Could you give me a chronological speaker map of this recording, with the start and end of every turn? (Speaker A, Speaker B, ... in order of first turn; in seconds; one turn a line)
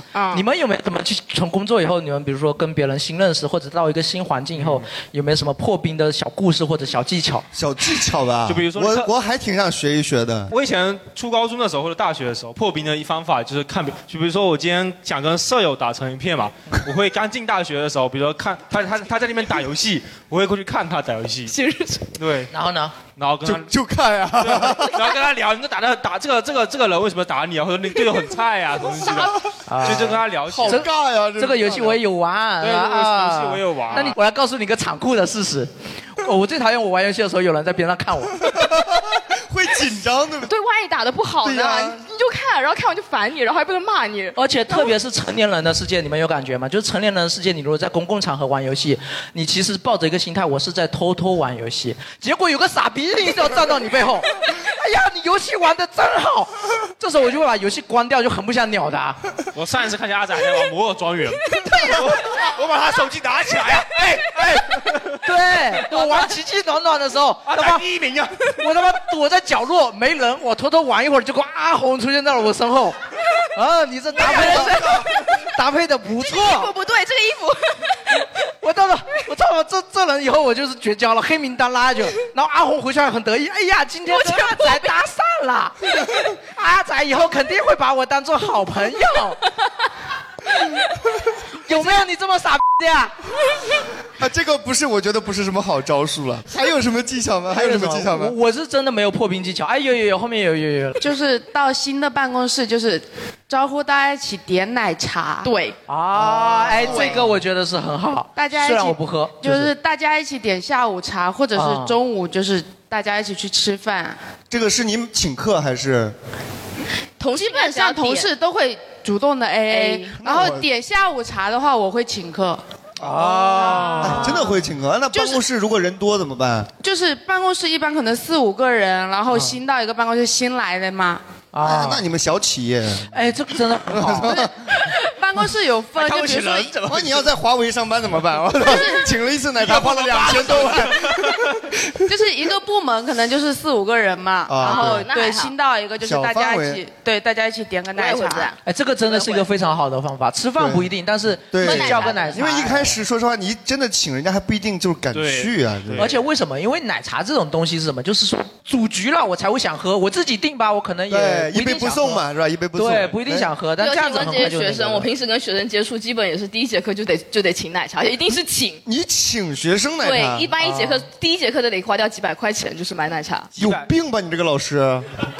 Speaker A: 0.1-0.4
Speaker B: 0.3-7.5
Speaker C: 4.6-4.8
Speaker D: 7.5-10.5
Speaker C: 8.5-9.1
Speaker C: 10.5-21.5
Speaker A: 21.5-22.1
Speaker C: 22.2-22.5
Speaker B: 22.5-22.9
Speaker C: 23.1-23.7
Speaker D: 23.4-25.0
Speaker C: 24.4-30.8
Speaker B: 29.7-30.9
Speaker D: 30.6-32.0
Speaker B: 31.4-38.4
Speaker C: 32.6-34.2
Speaker D: 38.4-40.5
Speaker A: 40.4-44.9
Speaker D: 41.4-42.0
Speaker B: 44.4-59.2
Speaker C: 59.5-65.2
Speaker B: 65.2-67.8
Speaker C: 65.8-66.3
Speaker C: 67.5-68.5
Speaker B: 68.5-73.0
Speaker B: 73.5-76.7
Speaker C: 74.2-75.1
Speaker A: 74.2-74.9
Speaker A: 76.2-78.0
Speaker B: 78.6-85.8
Speaker A: 84.1-84.9
Speaker B: 86.5-89.4
Speaker B: 91.6-93.1
Speaker D: 94.2-98.3
Speaker B: 97.5-101.0
Speaker E: 101.0-105.5
Speaker A: 105.4-105.8
Speaker B: 105.9-109.7
Speaker E: 106.8-107.2
Speaker D: 106.8-107.2
Speaker A: 106.9-107.1
Speaker E: 108.3-114.2
Speaker B: 111.5-112.0
Speaker D: 114.5-116.1
Speaker A: 117.2-118.3
Speaker E: 117.3-122.6
Speaker A: 119.7-120.1
Speaker D: 120.2-120.7
Speaker B: 123.0-124.4
Speaker E: 123.5-124.4
Speaker D: 124.0-126.7
Speaker E: 125.1-125.4
Speaker E: 126.8-131.2
Speaker B: 131.5-132.0
Speaker D: 131.6-133.1
Speaker B: 133.1-134.4
Speaker D: 133.9-134.5
Speaker E: 135.0-136.8
Speaker C: 135.9-137.3
Speaker D: 136.8-142.1
Speaker E: 138.6-139.1
Speaker C: 139.6-141.3
Speaker E: 142.1-148.5
Speaker D: 144.5-145.1
Speaker A: 144.6-145.5
Speaker D: 146.0-146.8
Speaker A: 147.9-149.5
Speaker B: 148.6-152.9
Speaker D: 150.6-150.9
Speaker D: 151.5-156.1
Speaker A: 151.6-152.5
Speaker E: 151.9-152.2
Speaker C: 155.1-156.2
Speaker B: 155.9-162.2
Speaker D: 161.1-163.5
Speaker B: 162.7-165.1
Speaker A: 163.8-168.8
Speaker D: 168.8-170.5
Speaker A: 170.0-173.5
Speaker B: 170.6-171.0
Speaker D: 173.6-175.1
Speaker C: 173.6-173.9